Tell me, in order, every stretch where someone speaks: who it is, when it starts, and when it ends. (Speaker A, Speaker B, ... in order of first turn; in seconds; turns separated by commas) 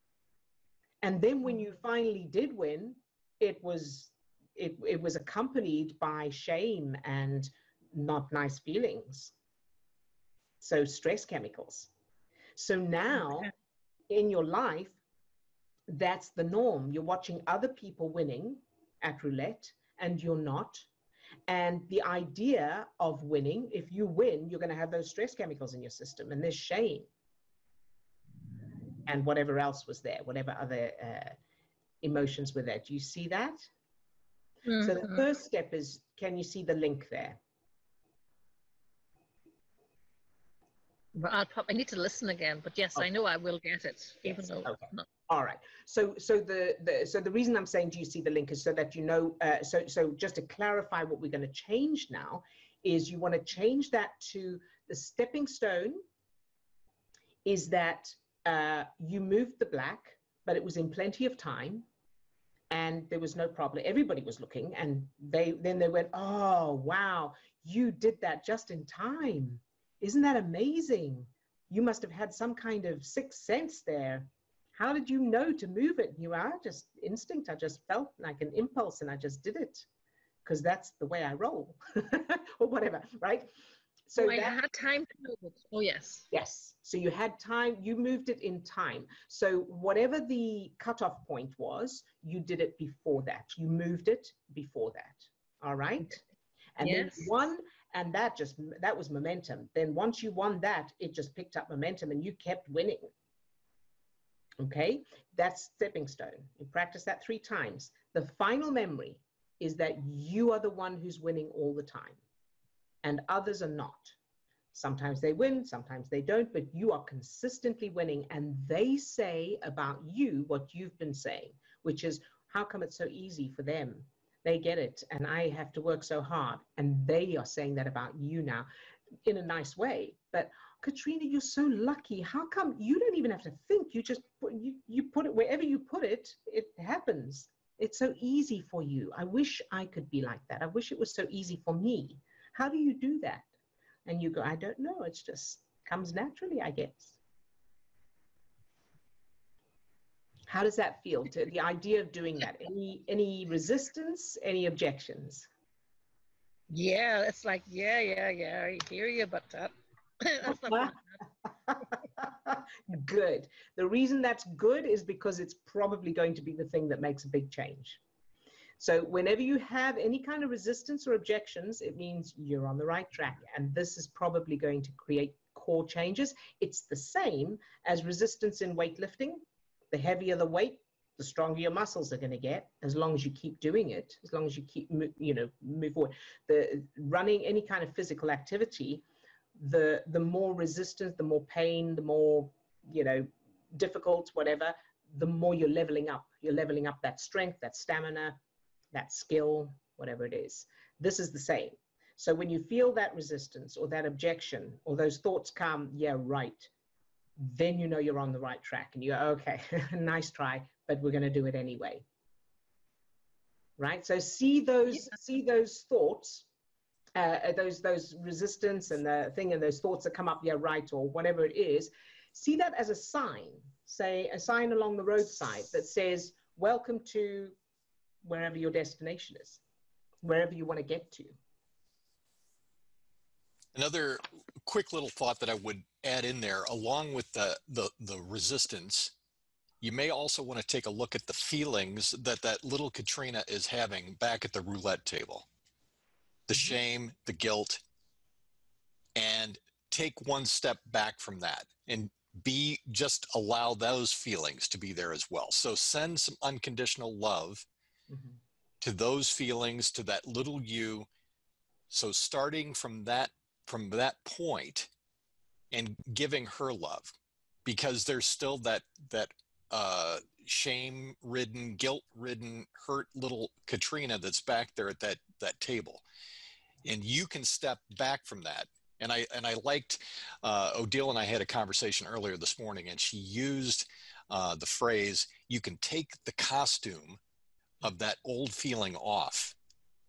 Speaker A: 1.0-9.3, Speaker A: 10.6-11.9, Speaker A: 12.6-13.5, Speaker A: 14.1-15.0, Speaker A: 15.9-20.9, Speaker A: 21.5-27.1, Speaker A: 29.1-31.4, Speaker A: 32.0-33.7, Speaker B: 34.7-35.2, Speaker A: 34.8-37.4, Speaker B: 41.1-45.0, Speaker A: 44.2-56.0, Speaker A: 57.4-61.9, Speaker A: 62.7-79.8, Speaker A: 80.4-83.5, Speaker A: 84.1-84.6, Speaker B: 84.2-86.2, Speaker A: 86.3-96.2, Speaker A: 96.8-103.1, Speaker B: 96.8-97.3, Speaker A: 104.6-112.2, Speaker A: 113.0-114.2, Speaker A: 114.7-128.7, Speaker A: 129.2-143.5, Speaker A: 144.1-147.2, Speaker A: 150.5-155.5, Speaker B: 156.7-161.2, Speaker A: 160.5-161.0, Speaker A: 161.7-168.0, Speaker A: 168.8-189.0, Speaker A: 189.6-198.4, Speaker A: 198.9-206.7, Speaker A: 207.4-212.0, Speaker A: 213.8-216.5, Speaker A: 217.1-227.6, Speaker A: 228.2-229.6, Speaker A: 230.2-231.4, Speaker C: 233.7-239.1, Speaker C: 239.8-245.4, Speaker C: 246.5-247.8, Speaker C: 249.2-257.6, Speaker A: 258.1-258.4, Speaker C: 258.8-261.1, Speaker C: 261.9-264.9, Speaker C: 265.7-267.1, Speaker C: 267.6-276.0, Speaker C: 276.8-287.2, Speaker C: 287.8-289.6